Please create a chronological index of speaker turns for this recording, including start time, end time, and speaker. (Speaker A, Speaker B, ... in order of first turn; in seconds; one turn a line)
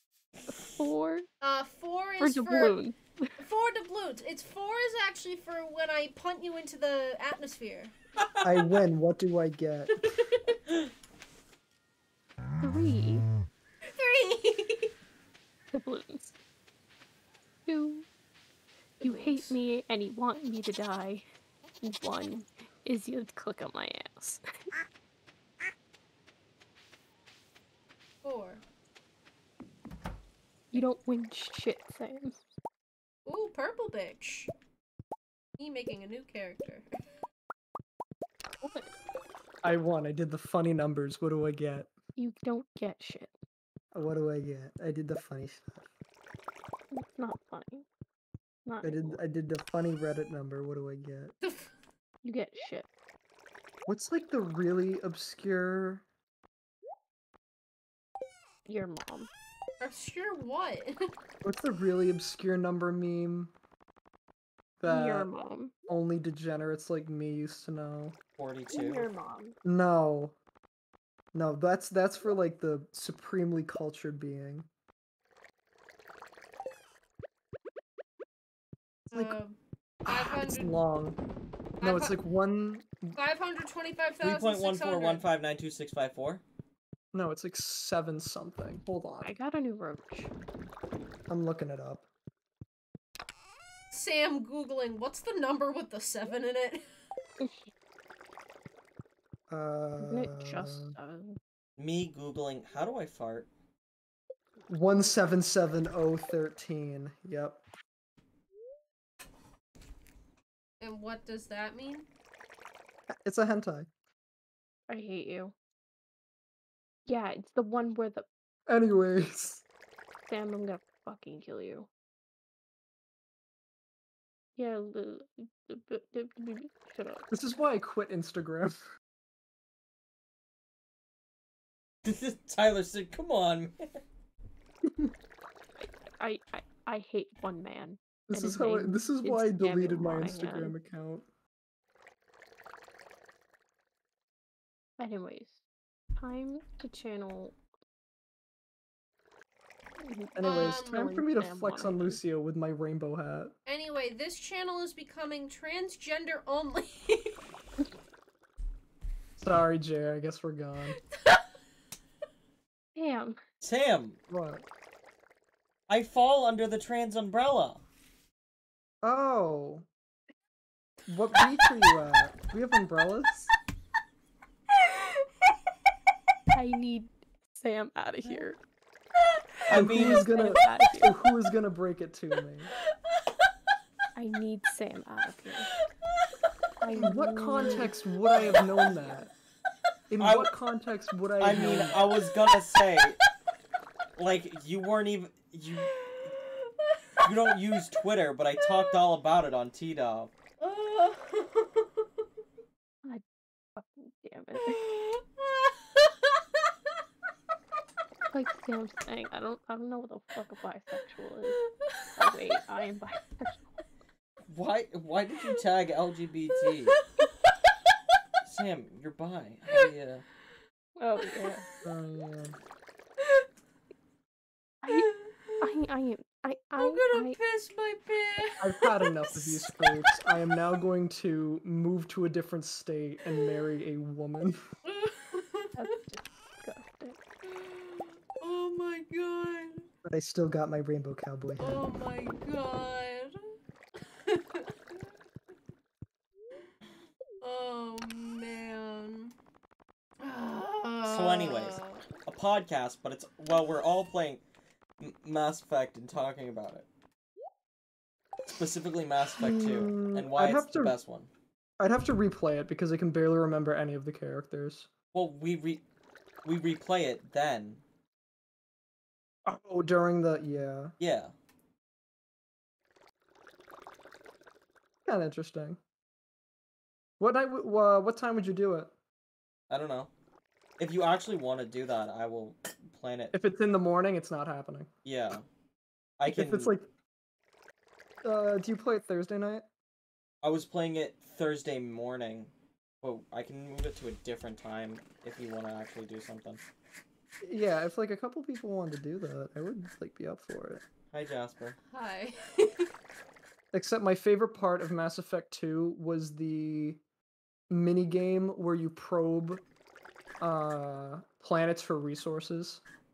Speaker A: 0.5-1.3
Speaker B: 1.4-2.8
Speaker A: 2.2-3.4
Speaker B: 3.4-8.0
Speaker C: 8.4-10.2
Speaker B: 10.0-10.4
Speaker A: 12.6-13.2
Speaker B: 13.8-14.9
Speaker A: 15.7-16.3
Speaker A: 17.6-18.1
Speaker B: 19.0-19.6
Speaker A: 19.0-21.2
Speaker A: 21.8-24.4
Speaker B: 28.2-28.6
Speaker A: 30.7-32.4
Speaker B: 33.2-34.5
Speaker B: 35.6-36.9
Speaker A: 38.6-38.9
Speaker C: 39.6-41.9
Speaker A: 42.1-43.3
Speaker C: 43.9-45.9
Speaker A: 46.9-47.8
Speaker A: 48.6-49.2
Speaker C: 48.8-51.3
Speaker B: 51.4-51.7
Speaker A: 52.2-52.9
Speaker C: 53.9-56.0
Speaker A: 58.7-59.3
Speaker B: 59.8-61.0
Speaker C: 61.4-63.5
Speaker C: 64.8-65.3
Speaker A: 64.8-65.7
Speaker C: 65.9-68.2
Speaker D: 68.4-69.1
Speaker A: 68.7-69.5
Speaker C: 69.6-70.3
Speaker C: 71.3-74.7
Speaker B: 79.1-80.7
Speaker C: 80.0-81.2
Speaker B: 81.8-82.2
Speaker C: 81.8-83.2
Speaker B: 83.2-85.2
Speaker D: 84.2-86.4
Speaker C: 87.1-89.3
Speaker A: 89.2-90.3
Speaker C: 91.3-92.1
Speaker B: 93.9-96.8
Speaker A: 97.4-97.7
Speaker C: 99.5-100.9
Speaker A: 100.0-101.4
Speaker D: 101.8-103.5
Speaker C: 104.7-107.6
Speaker B: 110.8-112.1
Speaker C: 113.1-113.9
Speaker A: 114.9-115.5
Speaker A: 117.0-118.3
Speaker C: 118.7-119.6
Speaker A: 120.3-121.9
Speaker A: 124.5-127.2
Speaker C: 127.3-128.8
Speaker D: 132.0-134.0
Speaker C: 134.8-135.1
Speaker A: 135.8-140.7
Speaker C: 138.3-141.2
Speaker A: 145.0-145.6
Speaker A: 146.1-147.6
Speaker A: 150.0-152.2
Speaker C: 150.4-153.5
Speaker B: 150.4-151.1
Speaker B: 153.7-157.4
Speaker C: 159.4-161.0
Speaker B: 161.1-161.4
Speaker A: 162.9-163.4
Speaker D: 163.6-164.2
Speaker C: 164.3-164.6
Speaker D: 165.9-167.8
Speaker C: 169.0-169.8
Speaker C: 171.1-173.5
Speaker B: 171.4-171.9
Speaker B: 174.8-175.5
Speaker A: 176.5-178.6
Speaker D: 179.7-180.3
Speaker C: 179.7-182.7
Speaker A: 179.7-181.1
Speaker A: 184.1-185.7
Speaker A: 186.8-187.9
Speaker B: 186.9-188.9
Speaker C: 186.9-189.3
Speaker C: 190.1-192.0
Speaker D: 190.2-190.5
Speaker D: 191.4-193.2
Speaker B: 191.7-192.8
Speaker D: 194.2-195.9
Speaker B: 195.8-197.6
Speaker D: 197.2-200.3
Speaker B: 200.6-202.1
Speaker A: 203.8-204.8
Speaker B: 204.6-206.9
Speaker A: 208.3-213.7
Speaker B: 211.8-212.1
Speaker D: 214.5-217.0
Speaker D: 218.4-220.2
Speaker A: 221.0-221.6
Speaker B: 221.3-221.7
Speaker C: 221.8-222.6
Speaker B: 223.2-223.5
Speaker A: 224.8-225.1
Speaker B: 224.9-225.6
Speaker A: 225.6-227.4
Speaker B: 226.8-230.2
Speaker C: 228.6-234.6
Speaker B: 234.8-235.9
Speaker A: 235.7-237.2
Speaker B: 237.4-239.9
Speaker C: 240.0-241.8
Speaker B: 241.6-243.4
Speaker B: 244.0-245.1
Speaker B: 247.4-249.3
Speaker B: 250.2-252.1
Speaker D: 251.1-254.4
Speaker D: 255.0-256.9
Speaker D: 258.5-261.3
Speaker C: 259.3-260.9
Speaker C: 261.8-264.9
Speaker D: 265.1-265.8
Speaker D: 266.4-267.8
Speaker C: 269.4-270.9
Speaker D: 271.0-271.3
Speaker C: 275.0-275.8
Speaker C: 277.2-278.9
Speaker D: 279.7-280.1
Speaker D: 280.8-283.3
Speaker C: 283.3-284.9
Speaker D: 285.0-285.4
Speaker D: 286.2-286.7
Speaker C: 286.3-286.9
Speaker C: 288.2-289.6
Speaker D: 290.4-292.5
Speaker D: 293.0-296.6
Speaker C: 297.4-300.8
Speaker D: 301.1-301.8
Speaker B: 301.9-302.9
Speaker C: 303.7-307.0
Speaker C: 307.7-309.6
Speaker C: 310.4-312.8